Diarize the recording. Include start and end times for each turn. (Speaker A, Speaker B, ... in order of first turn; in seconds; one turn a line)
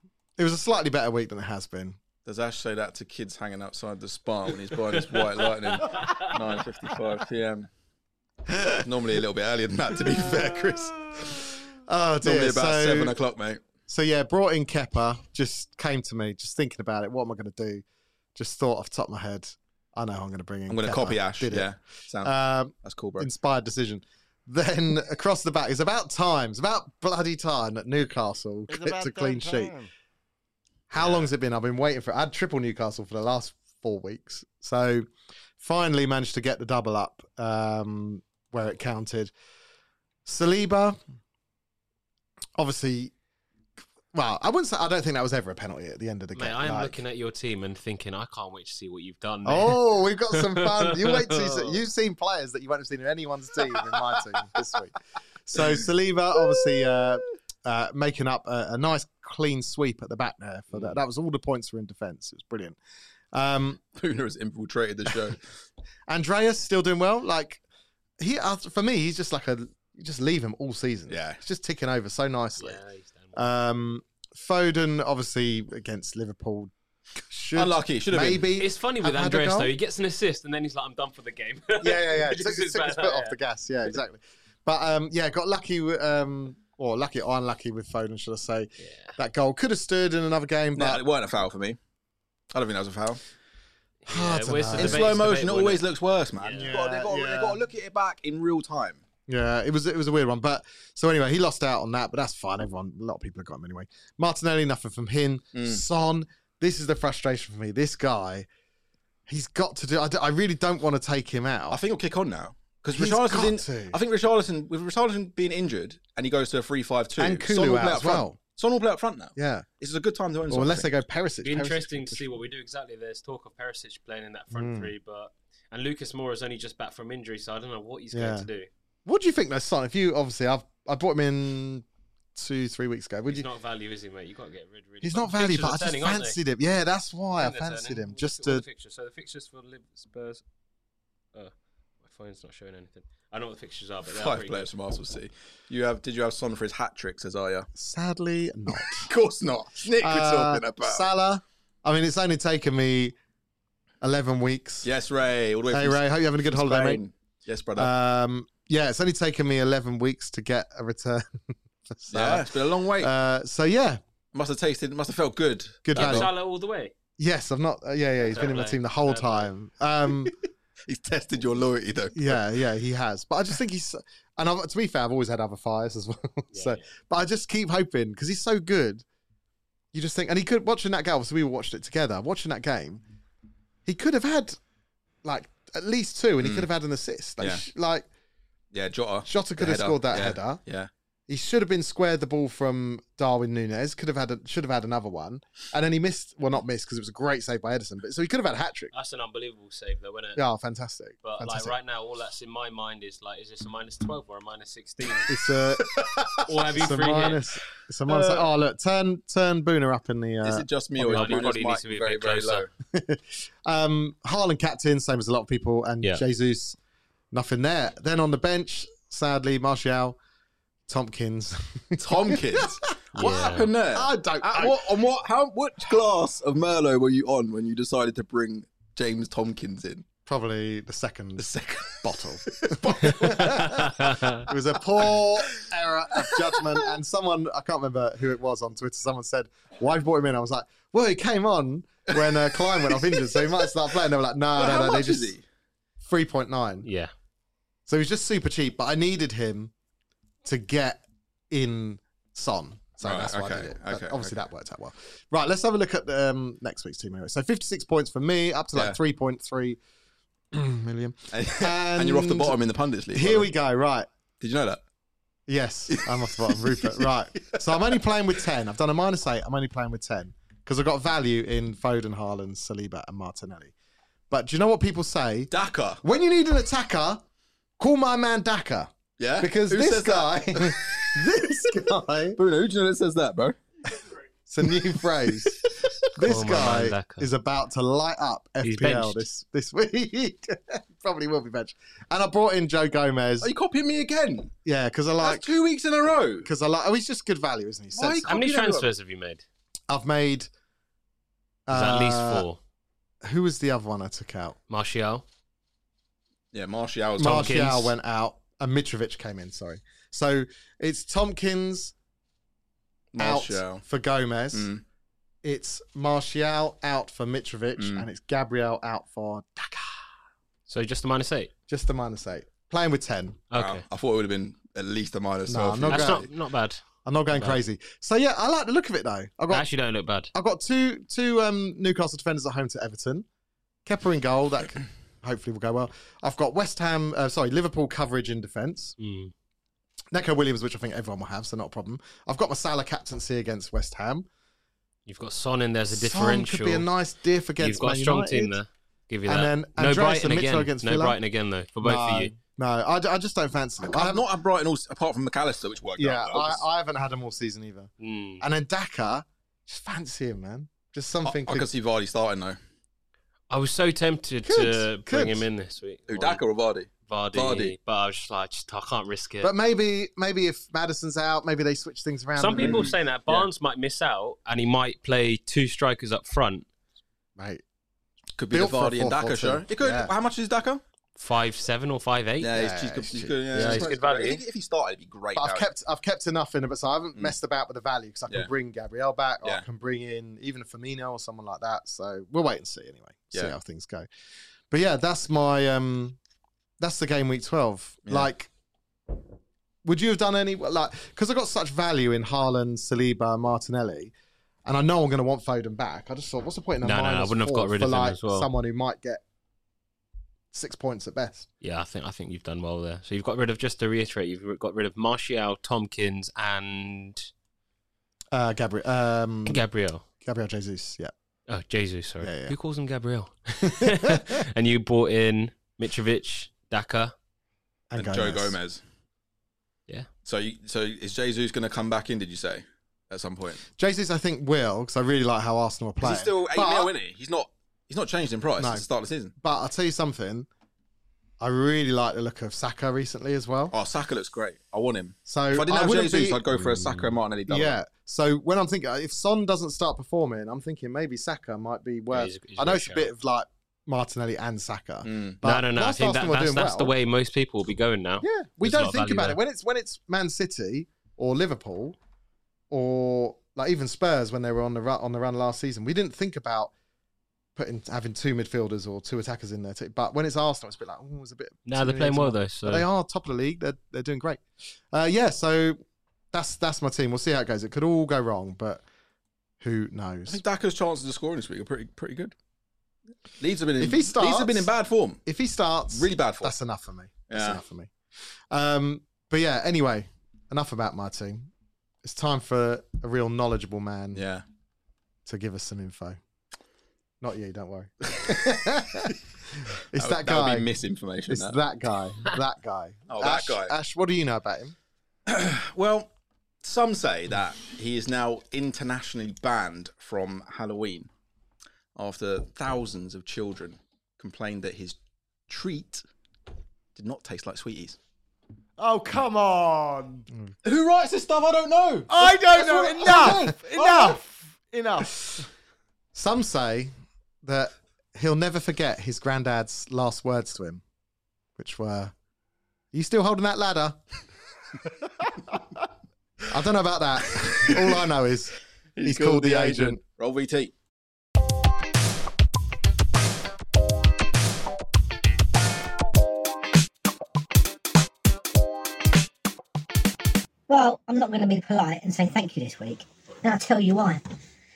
Speaker A: 0.4-2.0
Speaker B: 2.2-7.7
Speaker C: 5.7-6.3
Speaker B: 8.8-11.4
Speaker A: 10.2-13.2
Speaker B: 12.2-13.6
Speaker A: 13.9-17.8
Speaker A: 18.4-21.7
Speaker B: 20.7-23.3
Speaker A: 22.2-29.8
Speaker D: 28.7-29.9
Speaker A: 30.9-35.1
Speaker C: 31.0-31.3
Speaker A: 35.6-39.3
Speaker A: 40.2-41.0
Speaker A: 42.6-43.1
Speaker A: 44.1-47.0
Speaker C: 46.3-51.8
Speaker A: 49.5-55.0
Speaker A: 55.5-62.8
Speaker A: 63.3-63.8
Speaker B: 64.0-65.5
Speaker A: 66.1-67.6
Speaker A: 68.2-72.8
Speaker B: 71.1-71.4
Speaker C: 72.6-73.4
Speaker A: 73.3-76.7
Speaker A: 77.3-79.7
Speaker B: 77.5-78.5
Speaker C: 78.6-83.9
Speaker A: 81.8-91.0
Speaker C: 88.8-89.2
Speaker B: 90.8-91.8
Speaker B: 92.5-93.2
Speaker C: 94.0-95.8
Speaker A: 94.1-95.2
Speaker B: 94.8-99.0
Speaker C: 96.4-96.7
Speaker A: 96.6-97.6
Speaker A: 99.3-108.5
Speaker B: 105.5-105.8
Speaker A: 109.3-111.8
Speaker B: 111.7-120.9
Speaker A: 112.9-114.0
Speaker A: 117.2-118.4
Speaker A: 119.4-119.7
Speaker A: 120.5-122.3
Speaker C: 121.4-128.7
Speaker A: 124.5-124.9
Speaker A: 128.1-128.5
Speaker A: 129.1-133.5
Speaker C: 133.3-136.4
Speaker A: 135.0-138.6
Speaker C: 137.4-140.4
Speaker C: 142.0-144.7
Speaker B: 144.1-147.7
Speaker A: 147.8-149.1
Speaker B: 148.7-151.1
Speaker A: 150.0-153.2
Speaker A: 154.0-154.9
Speaker B: 154.8-157.9
Speaker A: 155.7-157.0
Speaker A: 157.8-161.4
Speaker A: 161.9-164.0
Speaker B: 162.1-163.1
Speaker B: 164.3-166.3
Speaker A: 165.8-166.3
Speaker C: 165.9-166.9
Speaker A: 167.2-170.3
Speaker C: 168.3-169.5
Speaker B: 170.9-172.4
Speaker A: 172.2-179.1
Speaker C: 176.5-176.8
Speaker A: 179.9-183.0
Speaker A: 183.8-184.6
Speaker A: 185.2-188.1
Speaker B: 186.4-186.7
Speaker B: 188.7-190.9
Speaker A: 189.3-190.6
Speaker A: 191.3-198.9
Speaker C: 198.9-200.4
Speaker A: 200.4-201.7
Speaker C: 201.2-205.3
Speaker A: 205.3-205.9
Speaker B: 205.9-206.4
Speaker C: 206.5-207.4
Speaker A: 206.8-211.4
Speaker B: 208.1-208.4
Speaker B: 210.4-212.7
Speaker C: 211.1-212.7
Speaker A: 212.9-216.8
Speaker A: 217.3-220.2
Speaker A: 220.9-222.9
Speaker B: 222.0-230.1
Speaker C: 223.2-223.7
Speaker A: 223.9-224.9
Speaker A: 230.3-245.3
Speaker B: 231.4-233.9
Speaker C: 233.3-234.4
Speaker B: 235.1-235.6
Speaker B: 236.2-236.7
Speaker B: 242.1-243.7
Speaker B: 244.6-245.4
Speaker A: 246.0-246.9
Speaker C: 246.8-247.1
Speaker A: 247.9-249.7
Speaker A: 250.4-259.8
Speaker B: 253.0-254.3
Speaker A: 260.5-262.6
Speaker B: 261.3-263.5
Speaker A: 263.1-264.1
Speaker B: 264.4-264.8
Speaker A: 265.5-273.7
Speaker B: 265.9-268.0
Speaker A: 274.3-275.5
Speaker B: 275.5-276.0
Speaker A: 276.0-277.2
Speaker A: 277.8-282.4
Speaker B: 279.2-281.2
Speaker B: 282.4-283.6
Speaker A: 284.5-293.5
Speaker B: 285.3-286.1
Speaker C: 286.2-287.3
Speaker C: 288.6-289.2
Speaker B: 293.4-294.5
Speaker A: 294.6-295.5
Speaker B: 295.2-296.5
Speaker A: 296.4-298.3
Speaker B: 297.9-298.9
Speaker C: 298.3-299.4
Speaker A: 299.9-300.5
Speaker A: 301.7-302.5
Speaker C: 301.7-302.6
Speaker A: 303.2-304.6
Speaker C: 304.7-305.2
Speaker B: 306.5-307.6
Speaker A: 307.2-311.9
Speaker C: 307.2-307.9
Speaker B: 313.1-313.8
Speaker A: 313.2-314.7
Speaker B: 314.5-314.8
Speaker A: 315.4-319.9
Speaker B: 317.8-318.1
Speaker C: 320.7-321.5
Speaker A: 321.7-323.4
Speaker C: 323.5-323.9
Speaker B: 323.6-326.3
Speaker A: 325.5-326.3
Speaker C: 325.9-327.6
Speaker A: 327.1-329.7
Speaker C: 329.5-330.3
Speaker A: 330.3-333.3
Speaker A: 333.9-338.9
Speaker C: 339.0-339.3
Speaker A: 340.1-344.3
Speaker C: 345.1-346.9
Speaker A: 345.9-348.6
Speaker C: 347.6-352.3
Speaker A: 349.3-351.2
Speaker A: 351.8-354.2
Speaker B: 353.9-356.6
Speaker A: 356.0-361.7
Speaker C: 358.0-358.4
Speaker B: 361.2-362.6
Speaker C: 363.5-366.4
Speaker A: 364.4-365.5
Speaker B: 366.1-367.7
Speaker C: 367.1-369.5
Speaker A: 369.4-373.0
Speaker C: 372.4-376.7
Speaker B: 372.6-373.5
Speaker A: 377.4-377.6
Speaker B: 378.4-380.8
Speaker A: 378.5-380.1
Speaker C: 381.2-382.5
Speaker B: 382.4-385.7
Speaker A: 382.5-383.9
Speaker C: 383.5-384.4
Speaker A: 385.4-394.1
Speaker A: 394.7-396.2
Speaker A: 396.8-398.5
Speaker A: 399.8-404.1
Speaker A: 404.7-409.2
Speaker C: 406.8-408.5
Speaker A: 410.5-411.5
Speaker C: 411.6-417.3
Speaker A: 418.3-419.6
Speaker C: 419.5-420.0
Speaker A: 420.2-421.1
Speaker C: 421.5-427.1
Speaker A: 422.2-422.6
Speaker A: 423.7-424.4
Speaker A: 427.9-428.6
Speaker B: 428.0-428.8
Speaker B: 430.2-433.6
Speaker A: 433.8-436.9
Speaker B: 436.0-439.3
Speaker A: 438.6-438.9
Speaker A: 439.4-440.5
Speaker A: 441.4-443.7
Speaker B: 443.7-447.8
Speaker A: 445.3-446.5
Speaker A: 447.5-456.9
Speaker C: 452.1-453.1
Speaker B: 455.1-455.4
Speaker C: 455.4-459.4
Speaker A: 458.2-462.0
Speaker A: 462.7-466.7
Speaker A: 467.6-475.8
Speaker C: 471.7-472.9
Speaker A: 476.3-478.8
Speaker A: 479.6-480.4
Speaker B: 480.3-482.3
Speaker B: 483.4-485.2
Speaker A: 483.8-484.7
Speaker A: 485.3-487.9
Speaker B: 485.9-486.5
Speaker B: 487.3-487.6
Speaker A: 488.5-491.5
Speaker A: 492.0-494.2
Speaker B: 494.1-494.4
Speaker A: 495.3-496.2
Speaker A: 497.2-500.7
Speaker B: 499.9-501.6
Speaker A: 501.3-504.8
Speaker B: 503.1-503.8
Speaker B: 505.3-506.1
Speaker B: 506.6-511.1
Speaker B: 512.0-515.0
Speaker B: 515.5-516.0
Speaker B: 517.0-518.0
Speaker D: 518.8-520.3
Speaker B: 520.6-524.2
Speaker D: 522.1-525.4
Speaker A: 523.0-523.5
Speaker A: 526.1-530.8
Speaker A: 531.6-532.1
Speaker A: 532.9-534.0
Speaker A: 536.5-540.0
Speaker B: 537.6-538.0
Speaker B: 539.0-540.7
Speaker E: 550.7-554.2